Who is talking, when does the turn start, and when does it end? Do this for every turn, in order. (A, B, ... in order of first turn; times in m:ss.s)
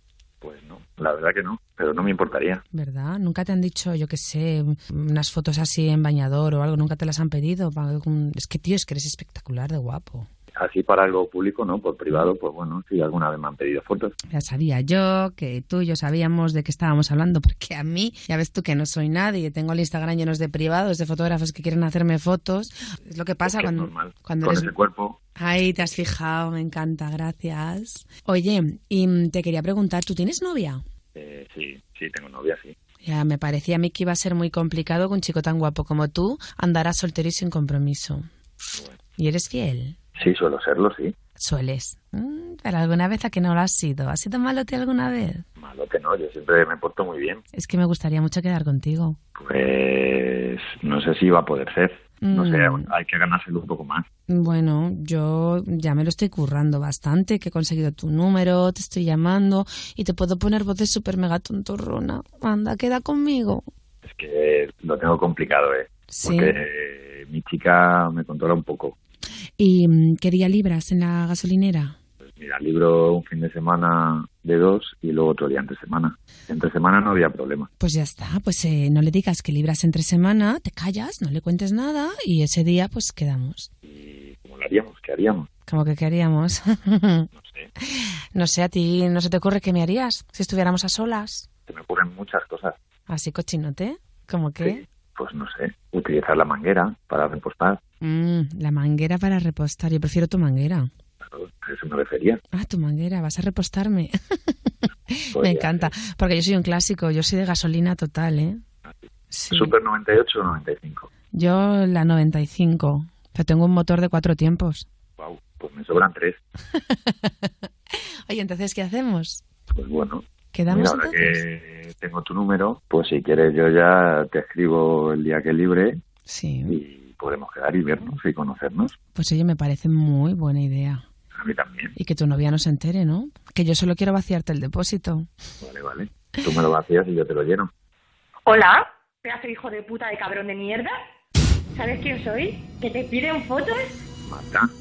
0:00.4-0:02.6 A
0:02.7-0:10.3 B
0:10.6-0:14.2 A
0:14.3-0:24.7 B
0:23.4-0:25.2 A
0:25.4-0:30.8 B
0:31.2-0:32.8 A
0:33.0-0:38.3 B
0:39.2-0:40.0 B
0:40.2-0:41.1 A
0:41.4-0:45.4 B
0:45.6-0:47.4 A
0:47.5-0:49.2 B
0:49.4-0:54.0 A
0:52.2-0:52.9 B
0:54.3-1:03.7 B
1:04.0-1:09.0 A
1:06.1-1:06.6 B
1:09.6-1:12.0 B
1:12.3-1:17.7 A
1:17.8-1:23.7 B
1:23.8-1:25.5 A
1:25.7-1:27.3 B
1:27.4-1:27.7 A
1:27.9-1:31.5 B
1:31.7-1:32.8 A
1:33.1-1:34.8 B
1:34.6-1:37.8 A
1:38.0-1:40.9 B
1:41.2-1:42.4 A
1:42.5-1:44.5 B
1:45.1-1:48.6 B
1:45.3-1:45.9 A
1:49.3-1:49.7 B
1:49.5-1:51.1 A
1:51.3-1:54.9 B
1:55.2-1:56.4 A
1:56.8-1:57.5 B
1:58.3-1:59.4 B
1:59.7-2:06.0 A
2:00.5-2:01.4 B
2:06.3-2:06.8 B
2:06.7-2:09.0 A
2:09.2-2:11.0 B
2:11.4-2:11.9 A
2:12.0-2:15.3 B
2:15.6-2:17.7 A
2:18.5-2:20.9 C
2:21.8-2:24.0 C
2:24.3-2:24.7 A